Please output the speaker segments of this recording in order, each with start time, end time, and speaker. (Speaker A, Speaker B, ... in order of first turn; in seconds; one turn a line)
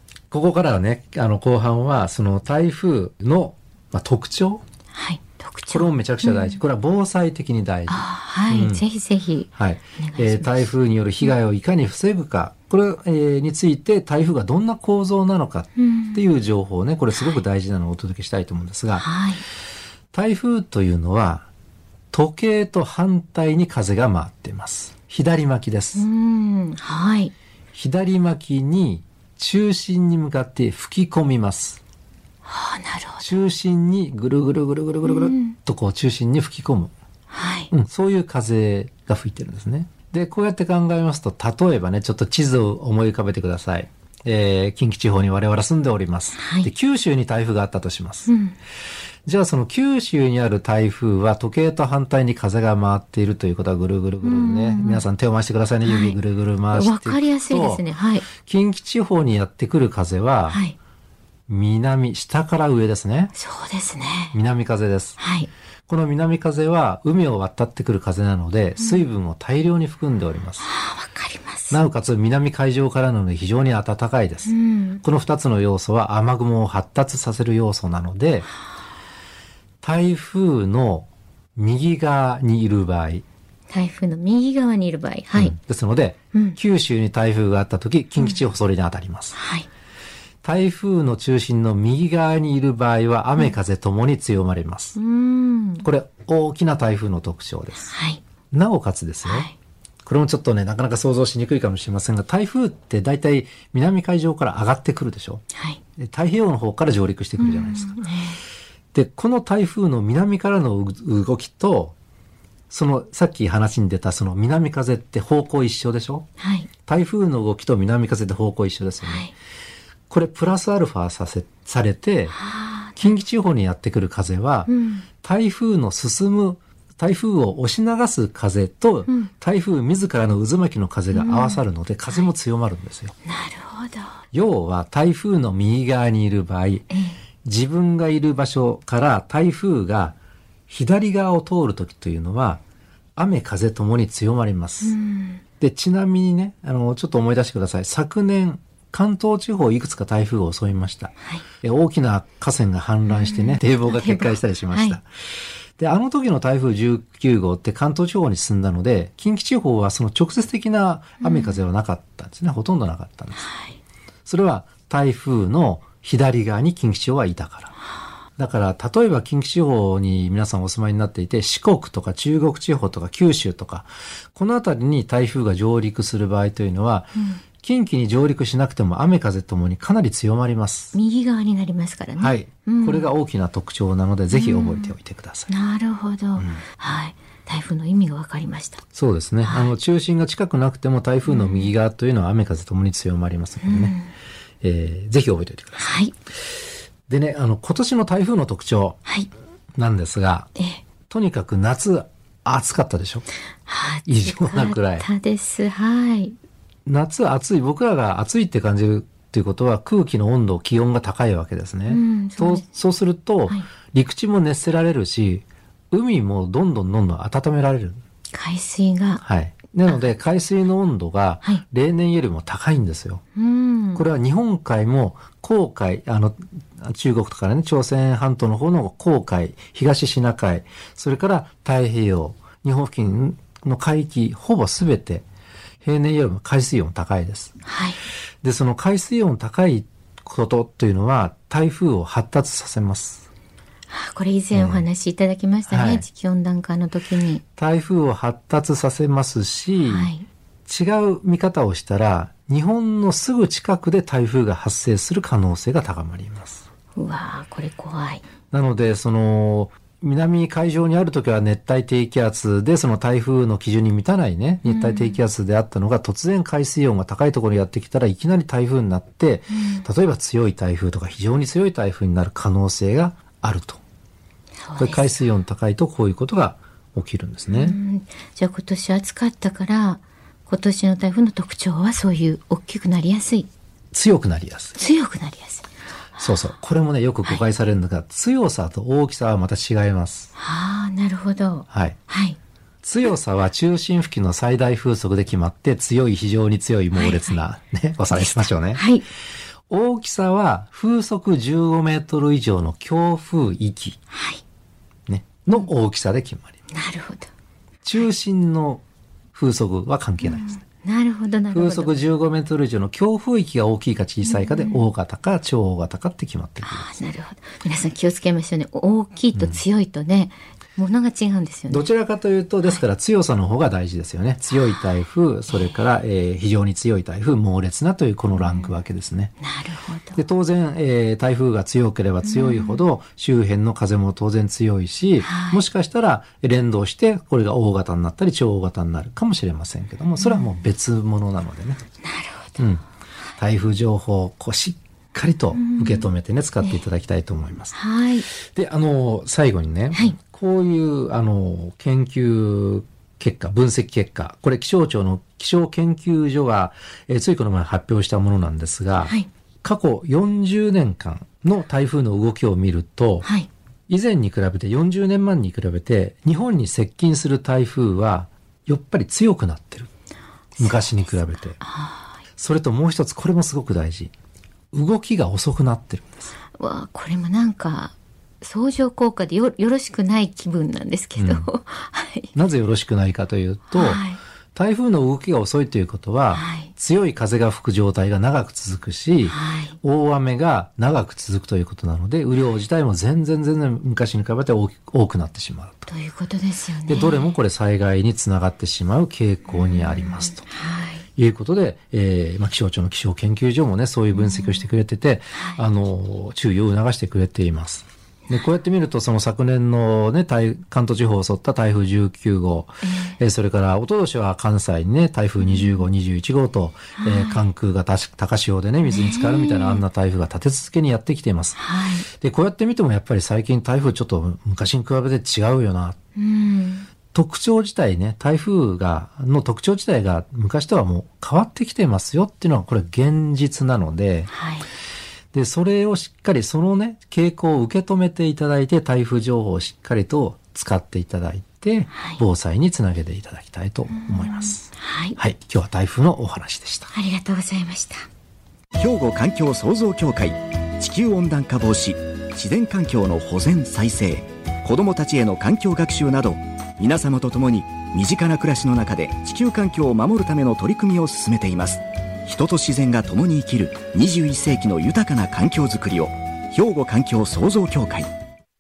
Speaker A: 0.3-4.6
Speaker B: 4.9-6.6
Speaker A: 5.7-8.8
Speaker B: 7.9-10.7
Speaker A: 9.6-19.1
Speaker B: 15.8-16.2
Speaker B: 17.1-17.4
Speaker B: 19.0-19.4
Speaker A: 20.1-21.5
Speaker A: 22.1-26.0
Speaker B: 26.0-27.3
Speaker A: 27.8-31.8
Speaker B: 32.5-33.4
Speaker A: 33.2-36.9
Speaker B: 35.0-35.6
Speaker B: 37.3-37.7
Speaker A: 37.7-48.3
Speaker B: 46.4-46.7
Speaker B: 48.3-48.6
Speaker A: 49.3-60.6
Speaker B: 54.2-55.0
Speaker B: 55.9-56.2
Speaker B: 56.7-58.3
Speaker B: 60.5-60.8
Speaker A: 61.5-63.3
Speaker B: 63.4-64.3
Speaker A: 64.3-65.2
Speaker B: 65.2-65.5
Speaker A: 65.9-70.7
Speaker B: 70.6-71.8
Speaker A: 71.7-78.5
Speaker B: 74.5-75.0
Speaker A: 79.8-83.2
Speaker B: 83.7-85.5
Speaker A: 85.4-89.4
Speaker B: 86.3-86.6
Speaker B: 89.4-89.7
Speaker A: 90.4-95.0
Speaker B: 95.0-95.9
Speaker A: 95.8-97.9
Speaker B: 97.8-98.2
Speaker A: 98.5-99.5
Speaker B: 99.3-99.5
Speaker A: 100.0-105.4
Speaker B: 105.5-105.8
Speaker A: 106.0-108.0
Speaker B: 107.4-108.4
Speaker A: 108.9-112.0
Speaker A: 112.7-116.3
Speaker B: 116.4-116.7
Speaker A: 116.9-119.3
Speaker B: 119.0-119.3
Speaker A: 120.1-122.4
Speaker B: 122.3-123.1
Speaker A: 123.0-133.2
Speaker B: 124.7-125.0
Speaker B: 131.1-132.2
Speaker B: 133.2-134.1
Speaker A: 134.3-136.9
Speaker B: 136.9-137.2
Speaker A: 137.4-140.2
Speaker A: 140.7-142.6
Speaker A: 143.2-145.0
Speaker B: 144.8-145.4
Speaker A: 145.6-155.0
Speaker B: 153.1-155.0
Speaker A: 155.8-163.5
Speaker B: 161.2-161.6
Speaker B: 163.4-163.8
Speaker A: 164.3-167.7
Speaker A: 168.4-180.9
Speaker B: 177.2-177.4
Speaker B: 180.9-183.1
Speaker A: 182.2-185.5
Speaker B: 184.3-184.9
Speaker B: 185.5-188.8
Speaker A: 186.4-186.6
Speaker A: 188.9-194.0
Speaker B: 189.5-189.7
Speaker B: 191.3-191.7
Speaker B: 193.7-194.1
Speaker A: 194.6-196.0
Speaker B: 195.8-196.1
Speaker A: 197.1-199.0
Speaker A: 199.8-200.5
Speaker A: 201.1-203.3
Speaker B: 203.7-206.4
Speaker A: 204.1-205.1
Speaker A: 206.9-218.0
Speaker B: 211.9-212.6
Speaker B: 218.3-219.2
Speaker A: 219.2-223.2
Speaker B: 223.4-224.0
Speaker A: 223.9-235.2
Speaker A: 235.8-237.6
Speaker B: 237.7-238.0
Speaker A: 238.4-243.2
Speaker B: 243.9-247.4
Speaker A: 244.5-244.9
Speaker A: 245.7-246.1
Speaker A: 247.6-250.1
Speaker B: 249.8-250.3
Speaker A: 250.7-256.6
Speaker B: 256.9-258.2
Speaker A: 258.5-273.8
Speaker B: 264.7-265.2
Speaker B: 269.5-269.9
Speaker B: 274.7-275.2
Speaker A: 274.8-277.8
Speaker B: 277.5-283.5
Speaker A: 283.9-284.8
Speaker B: 284.8-285.7
Speaker A: 286.2-290.3
Speaker B: 290.4-292.4
Speaker A: 291.7-292.0
Speaker A: 292.8-298.8
Speaker B: 296.9-297.4
Speaker B: 298.2-299.1
Speaker A: 299.7-304.0
Speaker B: 304.1-304.4
Speaker A: 305.1-306.5
Speaker B: 306.7-307.3
Speaker A: 307.8-308.8
Speaker A: 309.3-310.6
Speaker B: 310.2-312.0
Speaker A: 311.5-317.0
Speaker B: 314.3-314.8
Speaker B: 316.7-321.9
Speaker A: 319.4-319.6
Speaker A: 321.7-329.3
Speaker B: 328.4-328.7
Speaker B: 329.4-330.2
Speaker A: 330.1-341.8
Speaker B: 332.2-332.8
Speaker B: 335.2-335.6
Speaker B: 340.2-340.5
Speaker B: 342.0-342.6
Speaker A: 342.6-342.8
Speaker A: 343.4-347.8
Speaker B: 345.5-346.1
Speaker B: 347.7-348.3
Speaker A: 348.3-363.3
Speaker B: 363.2-363.5
Speaker A: 363.9-369.9
Speaker B: 370.6-372.1
Speaker A: 370.6-371.6
Speaker A: 372.4-374.1
Speaker A: 374.7-376.3
Speaker B: 376.6-382.3
Speaker A: 381.2-381.5
Speaker A: 382.3-384.0
Speaker B: 383.7-384.2
Speaker A: 384.6-395.9
Speaker B: 386.3-386.7
Speaker B: 389.3-389.7
Speaker B: 395.9-397.3
Speaker A: 396.9-400.5
Speaker B: 399.5-401.0
Speaker A: 401.2-426.0
Speaker B: 404.1-404.6
Speaker B: 405.4-405.6
Speaker B: 412.8-413.1
Speaker B: 415.4-415.8
Speaker B: 417.0-417.4
Speaker B: 418.9-419.8
Speaker B: 421.6-422.1
Speaker B: 426.2-426.9
Speaker A: 427.1-434.3
Speaker B: 434.3-434.7
Speaker A: 435.3-446.9
Speaker B: 441.9-442.2
Speaker B: 444.0-445.2
Speaker B: 446.9-448.1
Speaker C: 448.8-468.1